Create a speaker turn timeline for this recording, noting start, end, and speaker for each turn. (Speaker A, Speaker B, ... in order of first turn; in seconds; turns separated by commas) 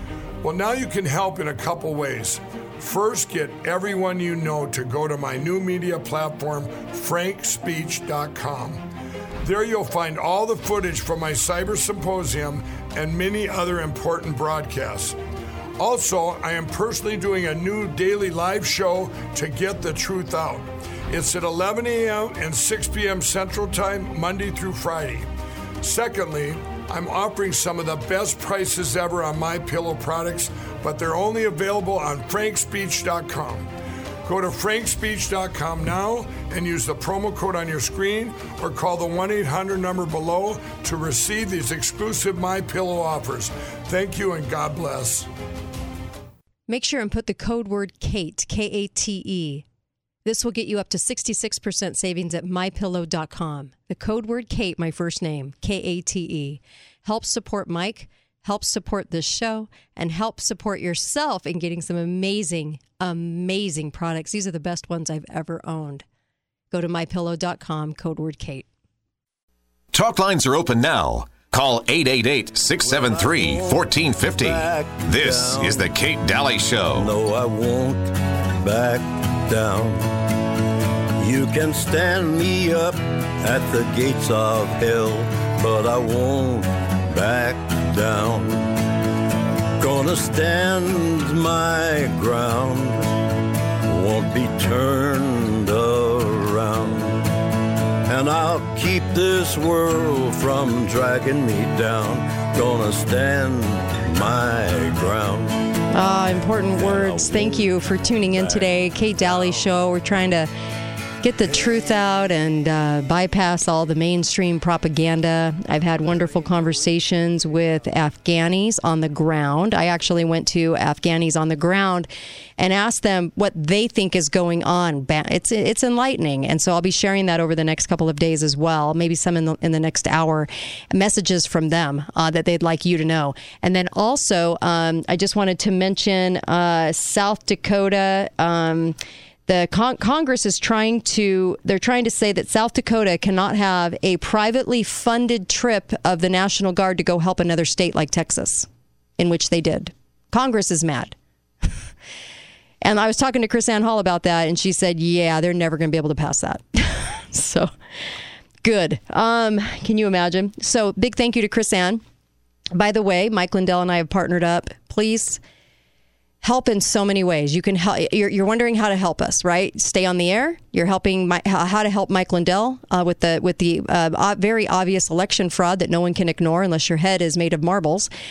Speaker A: 0.4-8.8, Speaker A: 9.4-15.2, Speaker A: 15.8-25.3, Speaker A: 25.8-33.7, Speaker A: 34.2-45.3, Speaker B: 46.7-49.6, Speaker B: 50.2-66.0, Speaker B: 66.7-68.7, Speaker C: 69.9-77.1, Speaker D: 72.8-75.9, Speaker D: 76.9-80.3, Speaker D: 81.2-88.7, Speaker D: 89.8-93.1, Speaker D: 93.9-97.4, Speaker D: 98.0-105.6, Speaker B: 105.9-110.5, Speaker D: 106.7-107.7, Speaker D: 108.3-108.7, Speaker B: 111.2-151.7, Speaker B: 152.8-157.7, Speaker B: 158.6-162.0, Speaker B: 162.7-165.4, Speaker B: 166.4-178.1